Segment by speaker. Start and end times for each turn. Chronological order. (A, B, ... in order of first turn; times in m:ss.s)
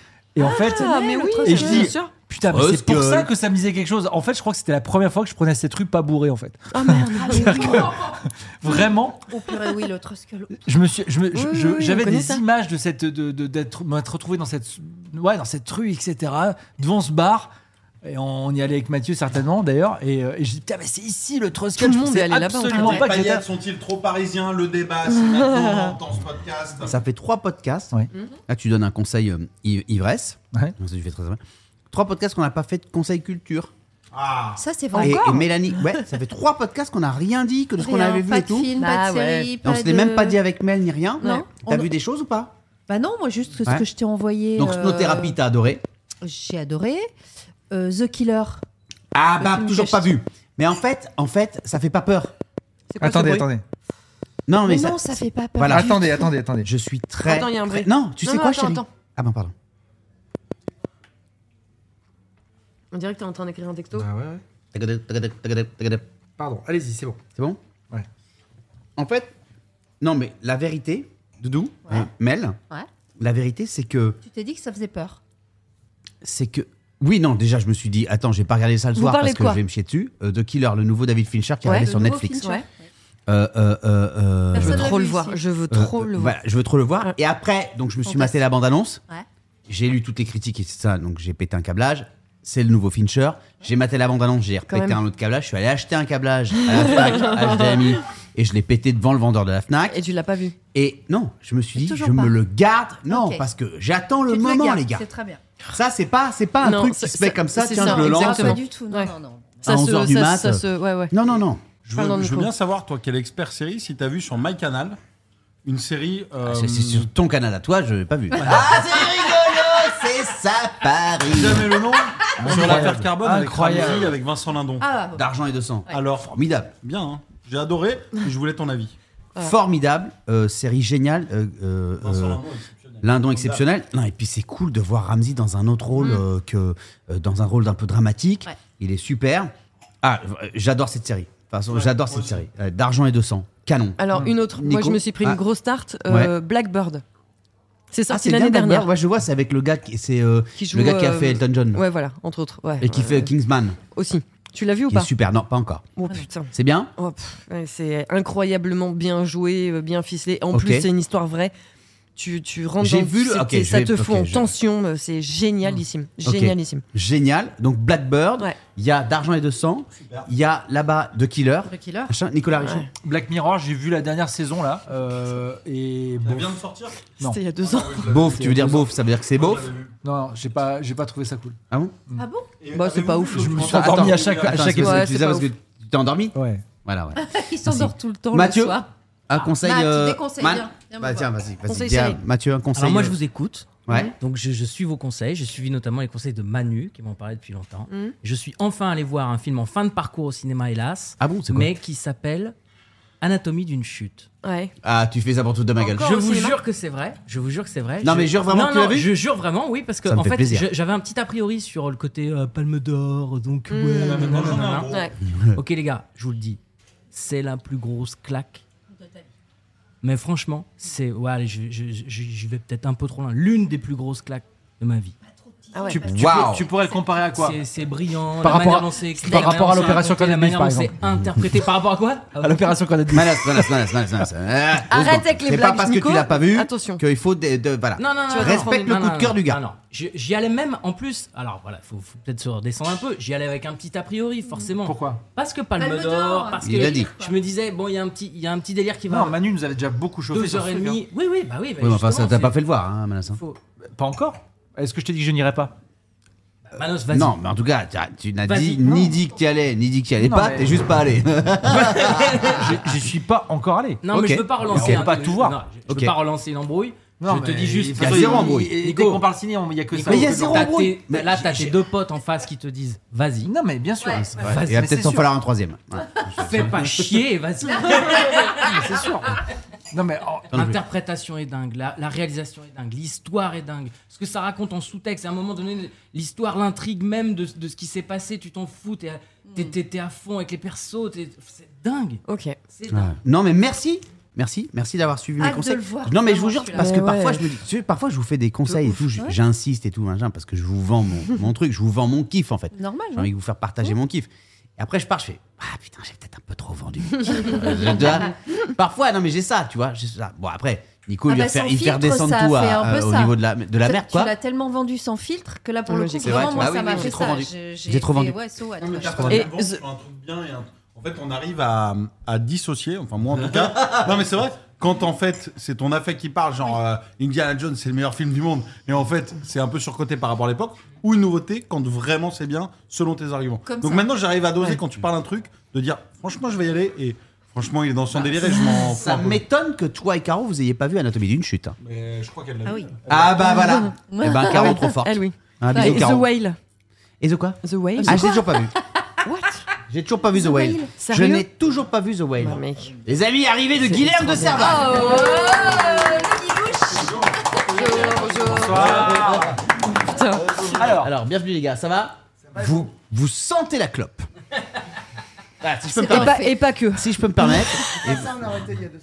0:00.3-0:09.3 A
0:00.4-0:02.1 B
0:00.7-0:01.8 C
0:02.4-0:03.3 D
0:06.7-0:07.9 B
0:07.2-0:10.6 C
0:10.6-0:17.5 A
0:11.3-0:12.4 B
0:18.0-0:23.4 A
0:21.8-0:23.1 B
0:22.8-0:27.0 E
0:25.3-0:25.9 B
0:26.8-0:27.9 D
0:28.5-0:33.7 D
0:34.1-0:34.6 E
0:34.6-0:35.5 C
0:34.9-0:35.4 B
0:35.0-0:38.7 D
0:37.8-0:40.4 C
0:38.8-0:39.5 B
0:39.6-0:42.5 D
0:41.2-0:41.8 B
0:41.2-0:41.8 C
0:42.9-0:45.4 C
0:44.5-0:45.8 D
0:46.2-0:47.1 C
0:47.7-0:48.6 C
0:49.1-0:52.3 D
0:49.4-0:50.2 C
0:52.9-0:53.5 B
0:53.0-0:53.6 A
0:54.5-0:56.1 D
0:54.6-0:56.3 C
0:55.6-0:56.7 A
0:56.6-0:59.5 D
0:57.2-0:58.8 B
1:02.9-1:04.1 B
1:04.0-1:04.4 A
1:04.7-1:06.0 D
1:06.4-1:07.2 A
1:09.0-1:09.3 D
1:10.0-1:12.6 D
1:13.2-1:14.2 D
1:14.2-1:15.2 C
1:16.2-1:22.5 D
1:18.9-1:19.6 B
1:21.6-1:22.6 B
1:21.7-1:22.9 C
1:23.3-1:25.0 D
1:24.5-1:25.4 C
1:24.5-1:26.4 B
1:25.7-1:29.0 D
1:29.7-1:40.0 D
1:34.7-1:35.0 B
1:36.6-1:37.8 B
1:39.9-1:40.6 B
1:40.7-1:45.1 D
1:41.7-1:42.3 C
1:43.1-1:43.4 C
1:44.3-1:45.4 C
1:45.7-1:48.6 D
1:46.6-1:51.1 B
1:47.6-1:49.6 C
1:49.6-1:51.6 D
1:51.8-1:55.0 E
1:51.9-1:52.5 B
1:55.6-1:57.0 E
1:56.4-2:01.8 D
1:58.4-1:58.8 E
2:01.2-2:05.0 E
2:02.4-2:04.2 A
2:02.5-2:03.0 D
2:04.8-2:05.2 C
2:05.1-2:06.7 D
2:05.9-2:08.9 E
2:09.4-2:12.4 D
2:12.0-2:13.6 E
2:13.0-2:25.4 D
2:21.7-2:22.4 E
2:24.0-2:27.0 B
2:26.1-2:26.3 D
2:27.9-2:28.9 B
2:28.1-2:31.8 D
2:30.6-2:33.3 B
2:32.8-2:33.8 D
2:33.9-2:35.1 B
2:34.9-2:35.9 D
2:36.0-2:41.5 B
2:36.5-2:36.9 D
2:40.5-2:40.9 D
2:42.2-2:46.8 B
2:42.8-2:44.5 D
2:46.2-2:52.9 D
2:49.9-2:50.3 E
2:51.7-2:52.1 C
2:52.6-2:52.9 B
2:53.0-2:56.6 A
2:56.2-2:58.8 E
2:57.2-2:58.2 B
2:58.1-2:59.7 D
2:58.2-2:58.8 A
2:59.3-3:00.0 E
3:00.0-3:01.6 A
3:01.7-3:01.9 D
3:02.2-3:02.5 C
3:02.6-3:04.8 E
3:02.7-3:03.6 B
3:03.3-3:05.0 A
3:03.6-3:13.2 D
3:04.8-3:05.5 B
3:06.4-3:06.6 A
3:07.1-3:08.9 C
3:09.4-3:11.3 C
3:11.6-3:12.2 B
3:12.7-3:22.5 F
3:13.9-3:14.1 D
3:21.2-3:21.7 D
3:23.2-3:24.3 F
3:24.4-3:24.7 B
3:24.8-3:26.2 D
3:25.8-3:26.6 B
3:26.0-3:34.9 F
3:28.0-3:29.1 D
3:30.0-3:30.7 D
3:33.7-3:35.1 B
3:33.9-3:35.1 E
3:35.5-3:36.6 F
3:37.1-3:38.6 F
3:40.0-3:45.1 F
3:45.7-3:46.0 B
3:45.8-3:46.2 C
3:46.0-3:46.7 D
3:46.0-3:47.6 A
3:47.2-3:52.7 F
3:48.4-3:51.0 A
3:52.4-3:53.8 A
3:53.1-3:59.6 D
3:54.9-3:57.0 B
3:58.0-4:09.4 F
3:58.3-3:58.9 B
4:04.8-4:05.2 A
4:05.8-4:07.3 C
4:06.6-4:07.1 D
4:09.1-4:11.0 A
4:10.3-4:12.6 F
4:11.8-4:13.4 D
4:13.3-4:13.6 F
4:13.9-4:15.7 A
4:16.7-4:17.4 F
4:17.1-4:22.6 D
4:18.4-4:18.9 F
4:20.2-4:20.7 A
4:22.0-4:24.0 A
4:22.0-4:22.6 F
4:24.0-4:29.3 F
4:24.1-4:25.1 D
4:24.7-4:25.6 A
4:25.9-4:26.1 D
4:27.2-4:30.7 A
4:28.0-4:28.8 D
4:29.9-4:33.5 F
4:30.0-4:31.8 D
4:33.4-4:35.3 A
4:34.0-4:37.1 D
4:34.4-4:34.7 F
4:36.3-4:38.8 F
4:38.6-4:39.4 A
4:39.9-4:40.5 A
4:40.5-4:40.8 D
4:40.5-4:52.2 F
4:52.3-4:52.6 B
4:52.7-4:53.2 F
4:52.9-5:14.4 D
4:55.4-4:57.2 C
4:56.8-4:57.4 B
4:58.7-4:59.0 B
5:02.7-5:03.3 C
5:07.4-5:08.1 C
5:11.3-5:19.5 C
5:15.9-5:17.2 B
5:16.2-5:18.4 D
5:18.8-5:39.4 E
5:19.3-5:19.8 B
5:33.6-5:34.6 C
5:38.9-5:41.8 D
5:41.8-5:43.6 E
5:42.6-5:42.9 C
5:43.1-5:46.3 D
5:43.5-5:46.6 B
5:44.1-5:44.9 C
5:45.7-5:46.1 C
5:47.2-5:48.7 D
5:47.6-5:48.3 B
5:48.0-5:48.7 C
5:49.2-5:49.7 B
5:49.9-5:55.2 D
5:50.4-5:50.9 C
5:51.0-5:51.4 B
5:52.4-5:52.9 B
5:53.8-5:56.3 B
5:54.6-5:57.1 C
5:56.9-5:59.6 E
5:57.8-5:58.6 C
5:57.8-5:58.8 B
5:58.5-5:59.6 A
5:58.9-5:59.2 D
6:00.1-6:00.7 B
6:00.5-6:04.3 D
6:00.7-6:01.1 A
6:05.6-6:08.6 D
6:05.9-6:06.6 C
6:05.9-6:07.6 B